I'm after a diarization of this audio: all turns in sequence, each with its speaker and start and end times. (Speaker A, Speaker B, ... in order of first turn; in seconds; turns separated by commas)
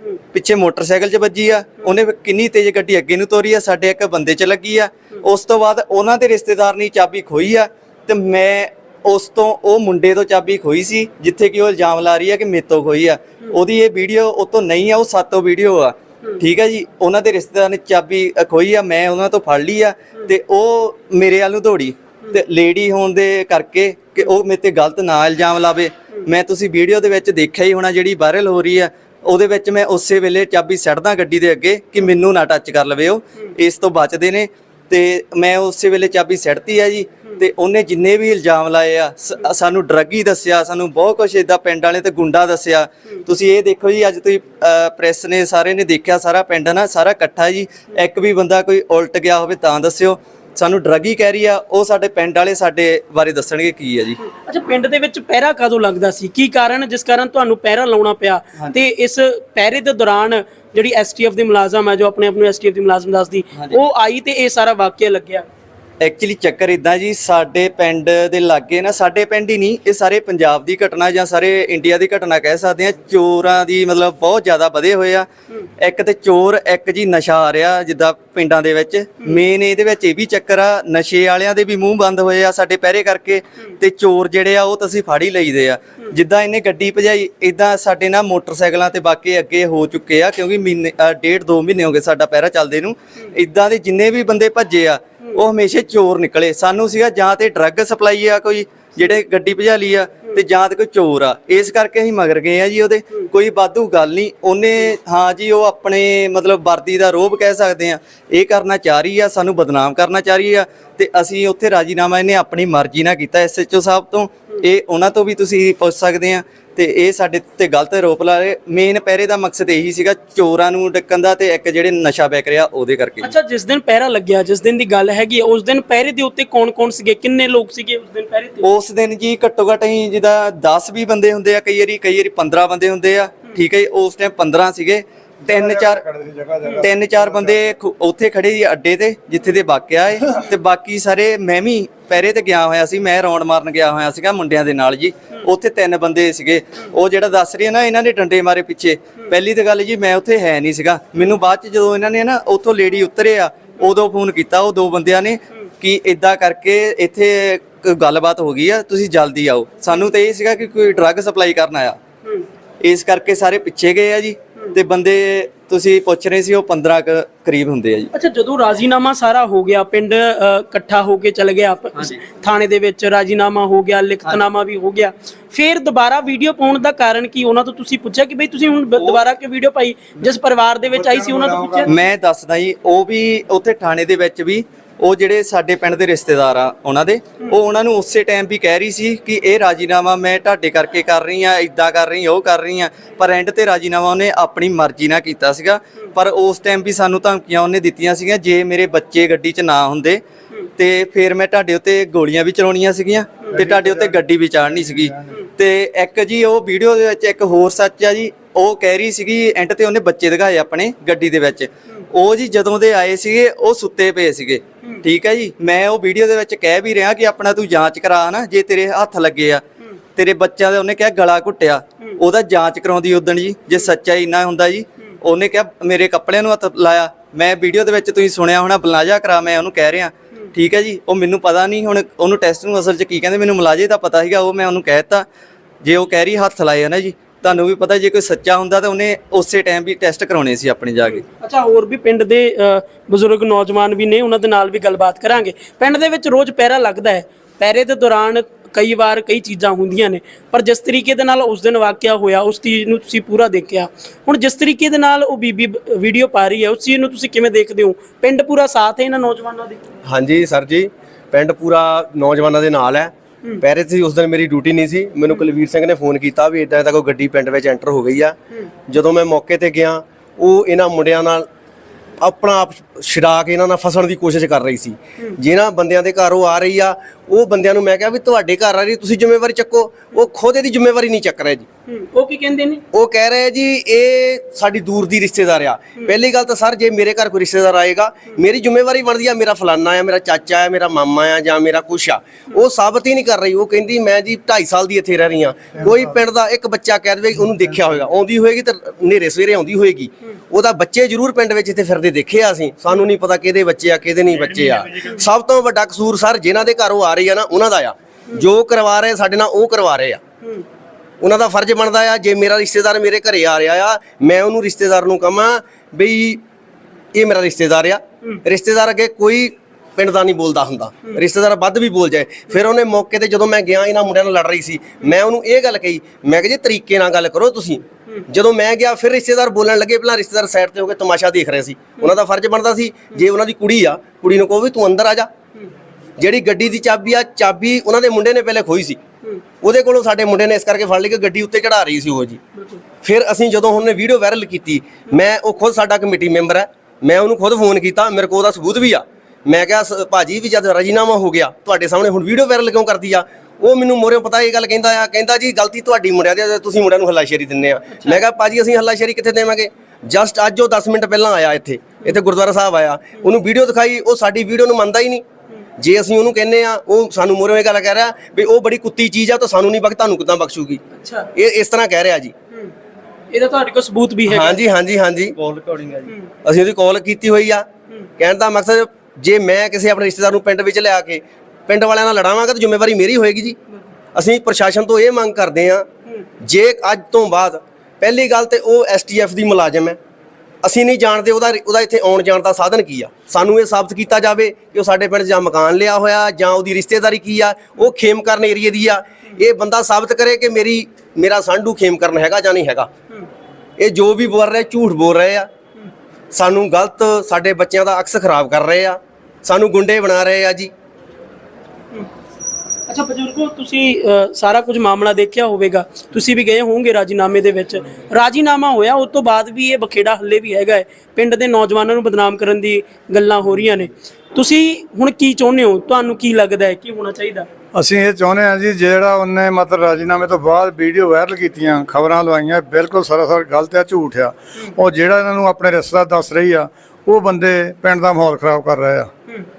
Speaker A: 0.3-54.2, Speaker B: 54.2-65.5, Speaker A: 66.0-75.3, Speaker A: 75.8-123.3, Speaker B: 123.2-128.7, Speaker A: 128.6-136.0, Speaker C: 135.4-137.7, Speaker A: 136.8-162.0, Speaker A: 162.8-168.1, Speaker B: 168.1-181.9, Speaker A: 171.9-172.2, Speaker C: 180.9-181.9, Speaker A: 181.8-200.2, Speaker A: 200.8-219.6, Speaker C: 203.5-204.1, Speaker A: 220.2-235.2, Speaker A: 235.8-241.2, Speaker B: 241.1-259.8, Speaker D: 260.0-268.4, Speaker D: 268.9-271.5, Speaker D: 272.2-281.6, Speaker B: 281.9-282.8, Speaker D: 282.9-310.2, Speaker D: 311.2-316.4, Speaker D: 317.1-335.3, Speaker D: 336.2-339.0, Speaker D: 339.6-342.4, Speaker D: 343.0-365.2, Speaker D: 365.8-370.8, Speaker B: 371.0-371.3, Speaker D: 371.3-372.3, Speaker B: 373.3-374.6, Speaker D: 374.3-375.3, Speaker A: 375.3-376.1, Speaker D: 376.4-377.6, Speaker D: 378.2-383.6, Speaker D: 384.1-385.9, Speaker D: 386.4-390.0, Speaker D: 390.6-402.9, Speaker D: 403.8-405.5, Speaker D: 406.3-410.7, Speaker B: 412.9-427.5, Speaker C: 427.7-439.1